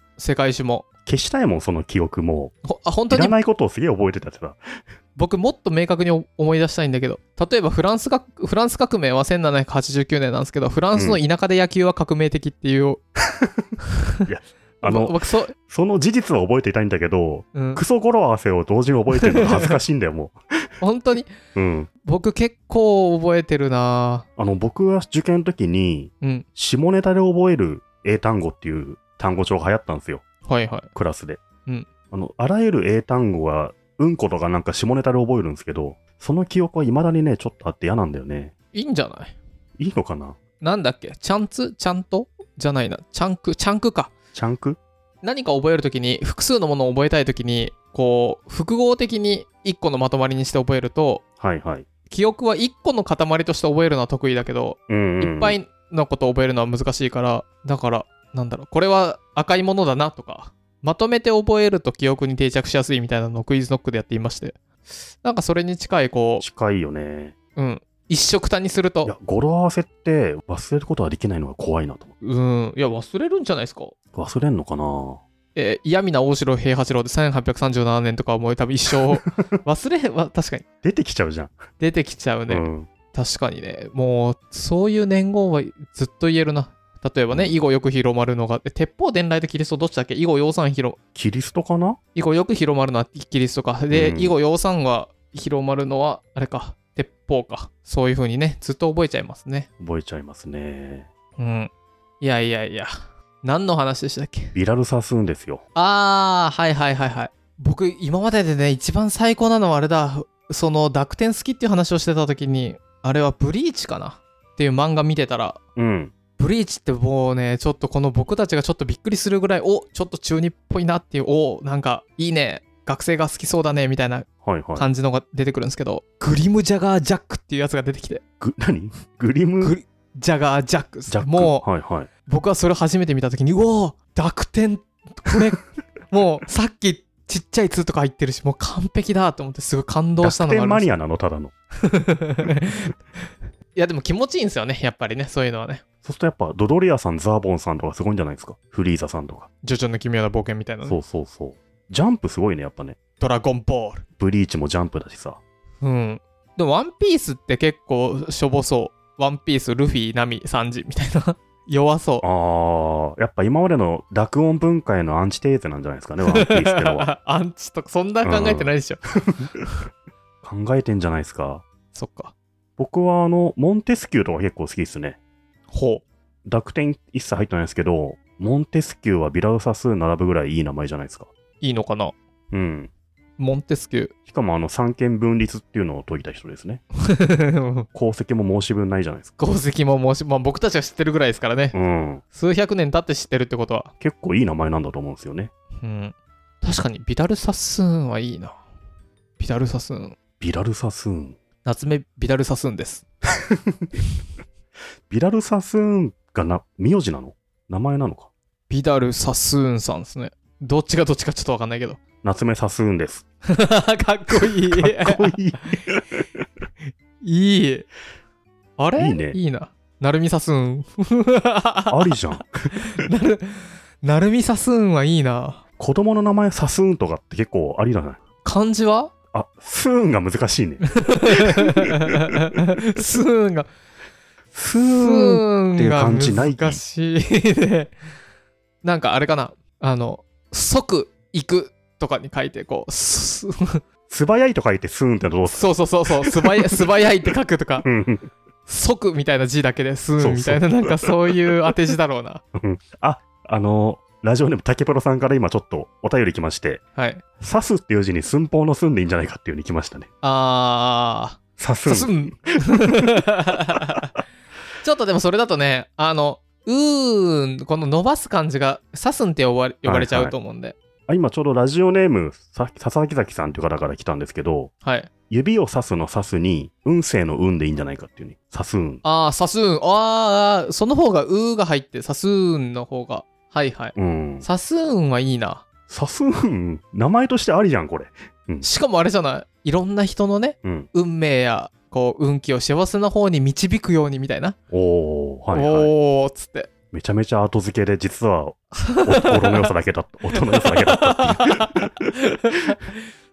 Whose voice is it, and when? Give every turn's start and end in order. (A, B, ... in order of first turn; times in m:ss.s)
0:00.2-0:00.9 A
0:01.1-0:02.5 B
0:02.6-0:03.4 A
0:03.1-0:04.6 B
0:05.2-0:13.0 A
0:11.0-0:11.2 B
0:14.2-0:20.4 B
0:14.8-0:15.6 A
0:17.6-0:17.8 A
0:20.8-0:21.3 A
0:21.6-0:21.9 B
0:22.0-0:24.3 A
0:24.4-0:30.3 B
0:30.4-0:30.9 A
0:31.0-0:31.4 B
0:32.1-0:38.5 B
0:38.7-0:39.4 A
0:39.8-0:40.4 B
0:40.6-0:44.1 A
0:44.3-0:44.8 B
0:45.2-0:51.2 A
0:51.4-0:51.9 B
0:52.1-1:04.6 A
0:54.9-0:55.6 B
1:05.2-1:06.4 A
1:06.4-1:07.4 B
1:07.6-1:09.1 A
1:09.0-1:12.1 B
1:12.2-1:14.0 A
1:14.1-1:15.2 B
1:15.6-1:20.7 A
1:19.1-1:19.6 B
1:20.8-1:21.6 B
1:21.8-1:31.0 A
1:22.5-1:22.9 B
1:27.3-1:27.6 B
1:31.2-1:32.0 B
1:32.2-1:39.7 A
1:33.9-1:34.4 B
1:39.8-1:41.1 B
1:41.4-1:41.7 A
1:42.2-1:42.9 A
1:43.4-1:44.6 A
1:44.5-1:45.6 B
1:45.8-1:55.6 A
1:55.8-1:56.2 B
1:56.4-2:08.2 A
2:04.4-2:04.9 B
2:08.4-2:09.8 B
2:09.6-2:11.7 A
2:11.1-2:12.1 B
2:12.3-2:20.9 A
2:20.2-2:21.5 B
2:21.8-2:22.9 A
2:23.8-2:25.8 A
2:26.0-2:29.5 B
2:29.6-2:31.0 A
2:30.8-2:33.0 B
2:33.2-2:34.0 A
2:34.2-2:35.4 B
2:35.8-2:42.2 A
2:42.2-2:47.1 B
2:46.3-2:49.0 A
2:48.2-2:48.7 B
2:50.4-2:51.7 B
2:51.9-2:52.3 A
2:52.8-2:55.2 B
2:55.7-2:56.0 A
2:56.5-3:01.3 B
3:01.6-3:02.2 A
3:02.5-3:02.9 B
3:03.4-3:04.1 A
3:04.3-3:06.8 B
3:07.0-3:07.9 A
3:07.9-3:09.3 B
3:09.4-3:11.8 A
3:11.7-3:12.2 B
3:12.4-3:13.9 A
3:14.0-3:15.5 B
3:15.8-3:18.5 A
3:19.4-3:20.2 A
3:20.4-3:21.4 B
3:21.6-3:23.0 A
3:25.1-3:28.3 B
3:28.7-3:32.0 A
3:32.2-3:33.2 B
3:33.5-3:35.7 A
3:34.6-3:35.8 B
3:37.2-3:37.9 A
3:38.8-3:42.1 A
3:39.0-3:39.4 B
3:41.9-3:42.8 B
3:42.7-3:45.6 A
3:45.8-3:48.2 B
3:48.4-3:49.1 A
3:49.3-3:50.9 B
3:51.0-3:53.7 A
3:54.5-3:56.8 B
3:55.0-3:57.9 A
3:58.8-4:03.8 A
4:04.1-4:06.8 B
4:05.5-4:07.9 A
4:07.8-4:08.3 B
4:08.7-4:12.4 A
4:10.2-4:11.2 B
4:12.6-4:16.8 B
4:17.0-4:17.2 A
4:17.4-4:20.1 B
4:20.2-4:24.0 A
4:21.6-4:23.1 B
4:24.8-4:30.8 A
4:29.8-4:30.4 B
4:31.1-4:34.7 B
4:34.8-4:35.1 A
4:35.3-4:39.0 B
4:39.0-4:45.7 A
4:44.0-4:44.5 B
4:45.9-4:48.7 B
4:48.6-4:54.6 A
4:54.7-4:55.9 B
4:55.5-4:56.7 A
4:56.9-5:02.1 B
4:58.8-4:59.7 A
5:00.3-5:02.2 A